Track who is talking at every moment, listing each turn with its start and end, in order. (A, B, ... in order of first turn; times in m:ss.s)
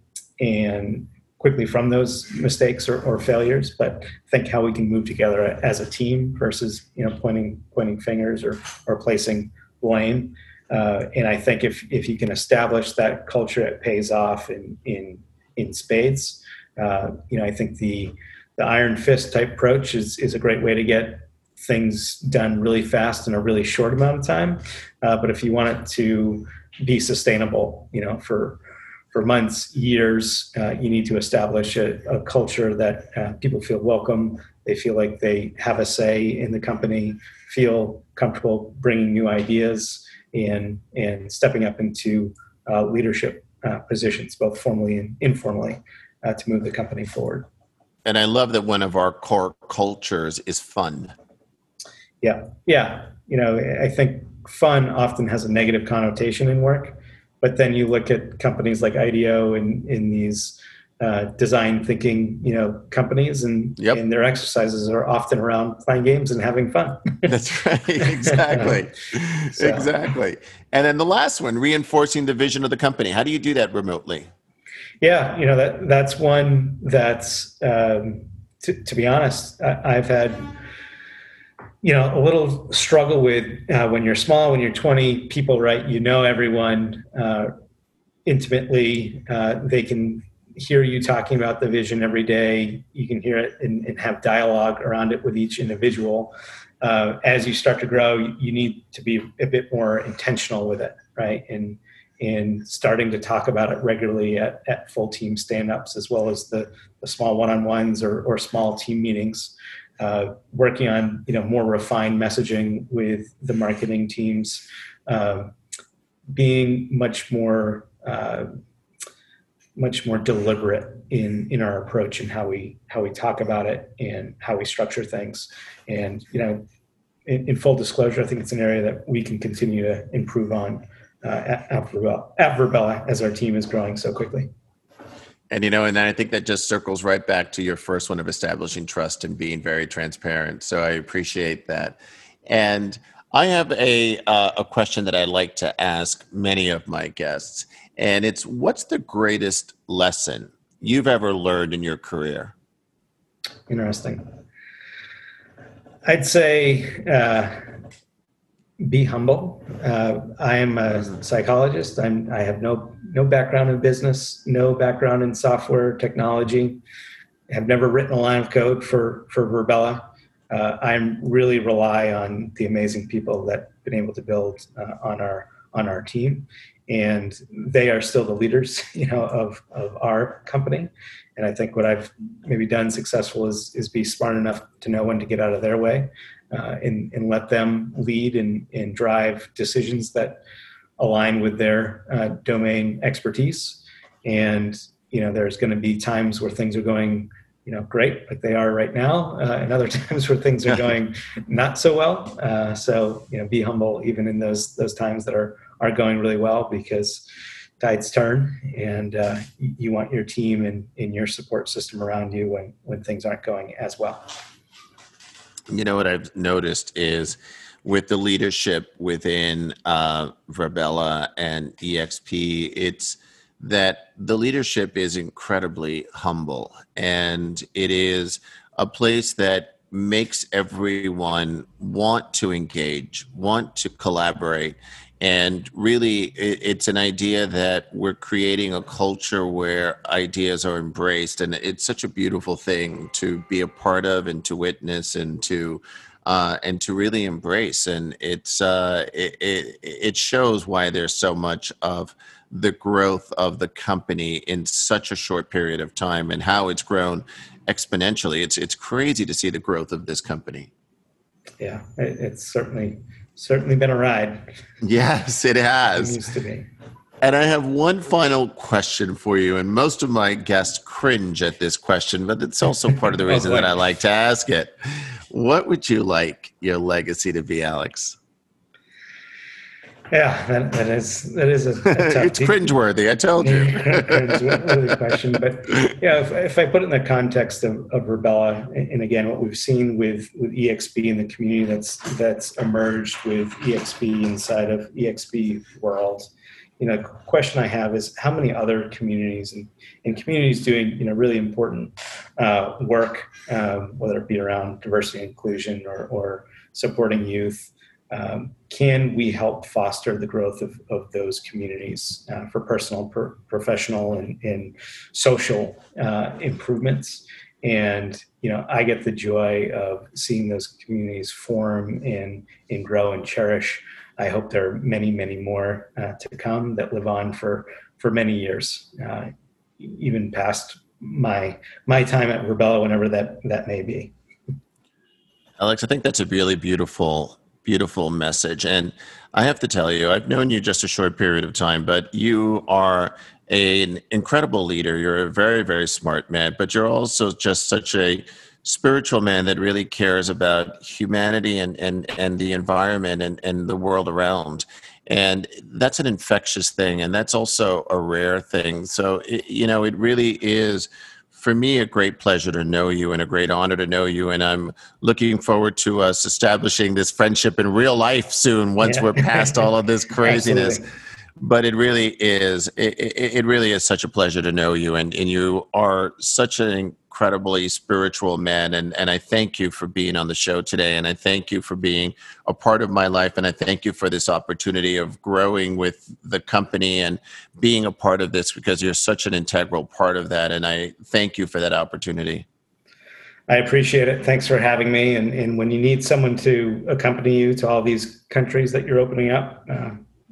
0:00.4-0:28.6 A
0:29.1-0:47.5 A
0:48.0-0:51.1 B
0:52.2-1:07.3 A
1:07.3-1:14.3 B
1:08.2-1:08.8 A
1:09.5-1:09.9 A
1:15.0-1:20.5 A
1:21.8-1:27.5 A
1:28.2-1:55.5 A
1:56.3-1:58.5 A
1:59.8-2:06.6 A
2:07.2-2:14.5 A
2:15.5-2:32.5 B
2:33.7-2:34.2 A
2:36.0-2:37.7 A
2:38.8-2:46.8 A
2:47.5-3:10.4 A
3:11.0-3:27.2 A
3:27.8-3:34.3 A
3:35.7-4:20.7 B
4:21.6-4:24.5 A
4:24.8-4:26.2 B
4:25.9-4:26.7 A
4:27.2-4:38.2 B
4:33.2-4:33.7 A
4:40.1-4:42.6 A
4:41.8-4:45.0 B
4:43.4-5:34.1 A
5:35.6-6:10.8 B
6:08.8-6:09.7 A
6:10.2-6:10.8 A
6:11.4-6:32.4 B
6:33.5-6:40.0 A